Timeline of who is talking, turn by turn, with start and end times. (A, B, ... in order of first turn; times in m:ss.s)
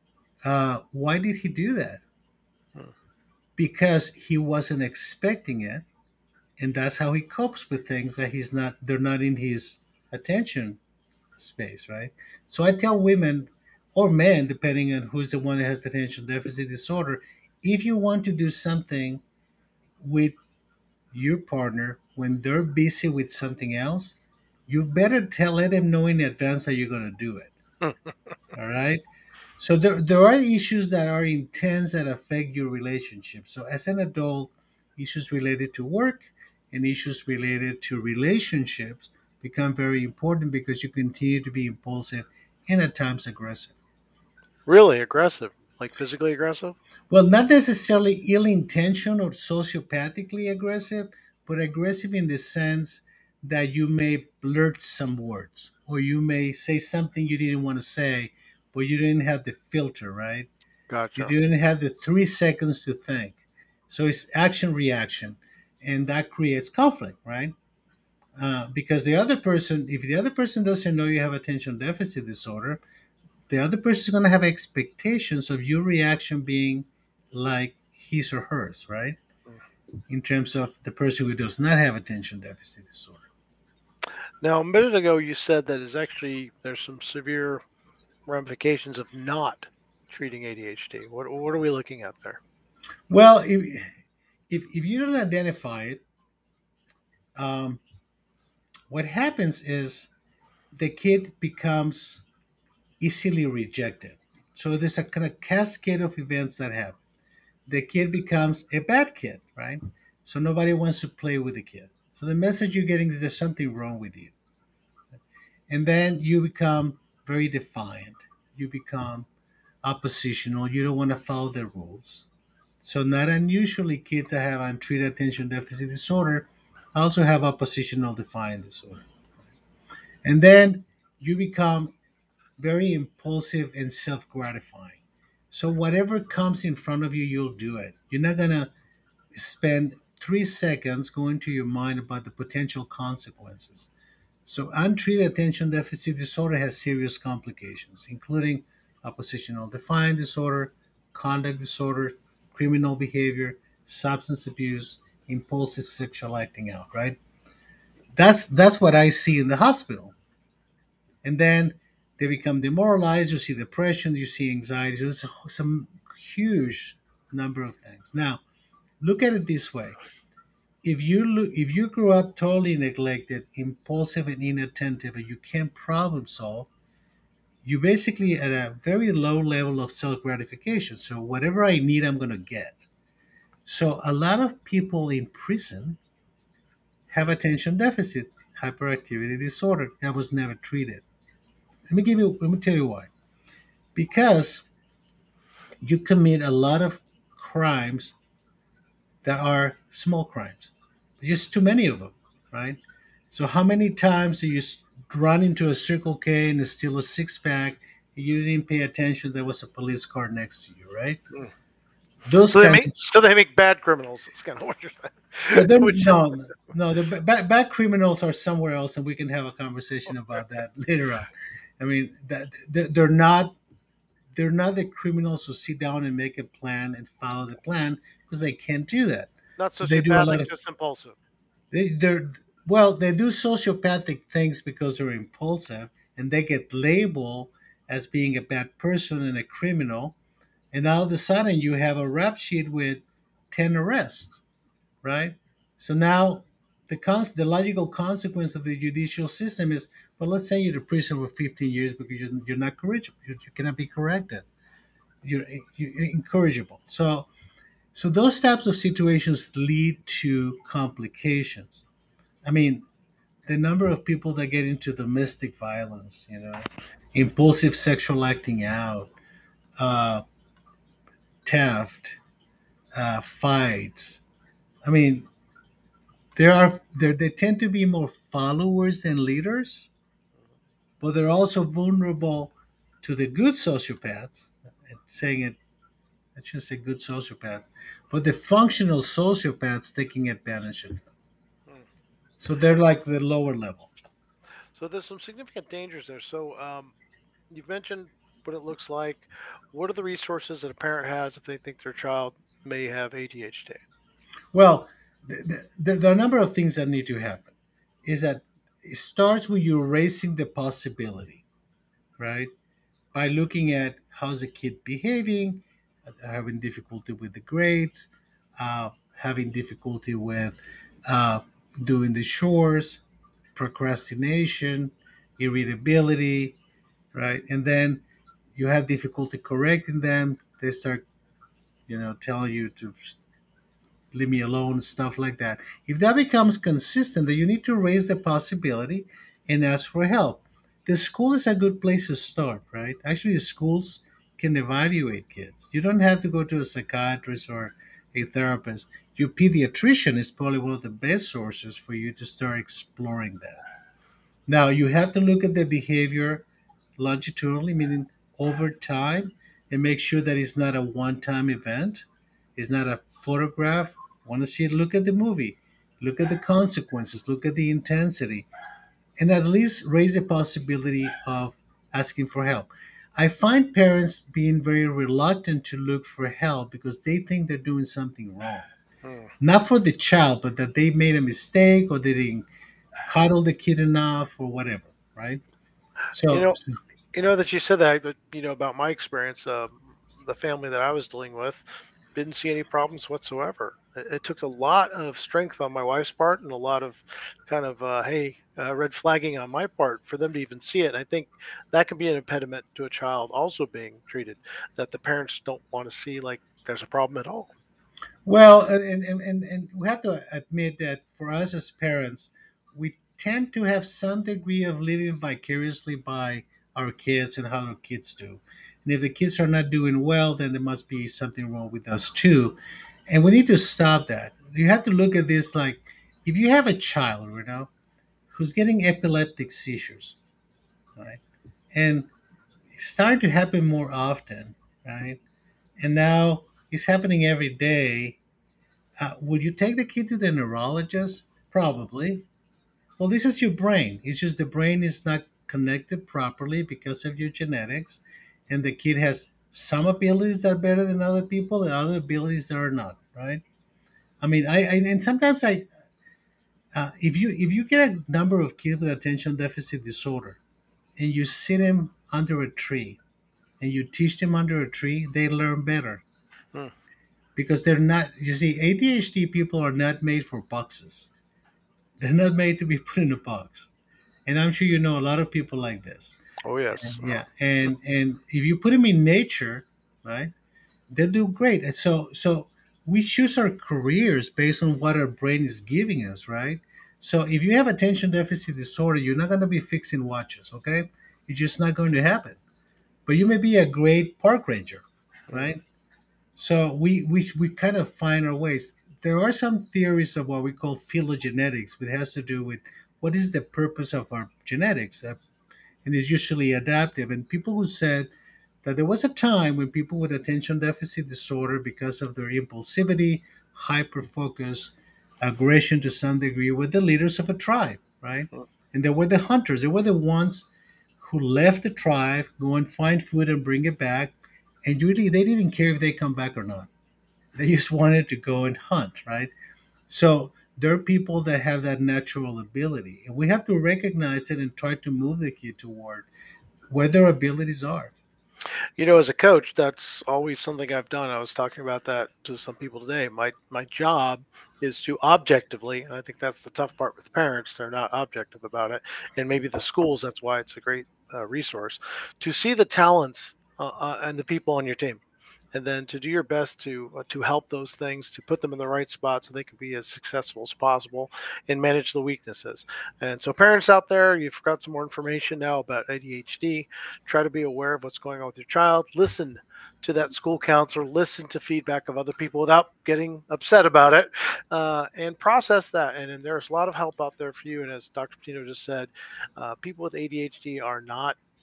0:00.4-0:02.0 A
0:03.6-0:05.8 A
0:06.6-0:10.8 A
0:11.4-0:19.2 A
0:20.0-0:20.4 A
0:21.1-0:27.5 A
0:27.8-0:28.3 B
0:28.6-0:29.0 A
0:29.6-0:43.8 A
0:44.7-0:46.8 B
0:47.1-1:00.5 A
1:00.9-1:01.3 B
1:01.2-1:07.5 A
1:08.4-1:12.8 A
1:13.5-1:19.2 A
1:20.1-1:23.3 A
1:24.4-1:27.6 B
1:28.3-1:32.4 B
1:33.1-1:33.9 A
1:34.5-1:36.0 A
1:37.4-1:37.8 A
1:38.9-1:40.1 A
1:40.7-1:42.2 A
1:43.0-1:47.0 A
1:47.7-1:54.4 A
1:55.7-1:59.3 A
1:59.8-2:02.3 A
2:02.8-2:09.1 A
2:10.2-2:11.9 A
2:12.6-2:15.0 A
2:15.5-2:18.7 A
2:19.3-2:23.9 A
2:24.5-2:37.2 A
2:38.2-2:40.2 A
2:41.2-2:48.4 A
2:49.0-2:50.0 A
2:50.8-2:56.7 A
2:57.6-3:02.9 A
3:03.7-3:06.0 A
3:07.1-3:11.0 A
3:11.9-3:13.1 A
3:14.0-3:14.7 A
3:15.8-3:18.2 A
3:19.2-3:22.8 A
3:23.3-3:31.2 A
3:32.3-3:32.9 A
3:32.5-3:36.4 B
3:35.5-3:43.6 A
3:44.3-3:50.5 A
3:49.6-3:51.2 B
3:51.7-4:00.2 A
4:00.7-4:04.4 A
4:05.0-4:14.5 A
4:15.2-4:17.3 A
4:17.9-4:21.8 A
4:22.4-4:22.9 A
4:23.4-4:29.1 A
4:29.8-4:30.2 A
4:31.4-4:32.2 A
4:33.0-4:34.2 A
4:34.8-4:35.3 A
4:36.4-4:39.9 A
4:41.0-4:45.6 A
4:46.4-4:51.1 A
4:52.4-4:53.9 A
4:54.8-4:56.9 B
4:57.5-5:03.8 B
5:04.5-5:07.5 A
5:08.0-5:11.4 A
5:12.2-5:12.5 A
5:13.1-5:23.0 A
5:23.6-5:26.6 A
5:27.1-5:28.0 A
5:28.6-5:31.0 A
5:31.9-5:33.2 A
5:34.1-5:53.6 A
5:54.5-5:56.5 A
5:57.0-6:08.5 A
6:09.2-6:18.7 A
6:19.0-6:19.3 B
6:19.4-6:22.5 A
6:23.1-6:25.4 A
6:26.1-6:26.8 A
6:26.3-6:26.6 B
6:27.1-6:47.5 B
6:48.2-7:02.6 A
7:03.1-7:07.7 A
7:08.3-7:10.2 A
7:11.0-7:11.2 A
7:11.7-7:12.1 A
7:12.7-7:15.2 A
7:15.8-7:18.2 A
7:19.0-7:22.2 A
7:23.0-7:33.4 A
7:34.2-7:35.7 A
7:36.7-7:40.4 A
7:41.0-7:43.0 A
7:43.6-7:46.0 A
7:47.4-7:51.1 A
7:52.0-7:53.7 A
7:54.3-7:56.2 A
7:56.4-7:57.0 B
7:56.8-8:00.3 A
8:00.9-8:12.4 A
8:13.1-8:15.6 A
8:15.3-8:15.5 B
8:16.4-8:25.2 A
8:25.8-8:28.1 A
8:28.6-8:40.5 A
8:41.0-8:46.7 A
8:47.4-8:49.3 A
8:49.9-8:56.1 A
8:56.7-8:57.9 A
8:58.8-9:15.0 B
9:15.5-9:41.2 B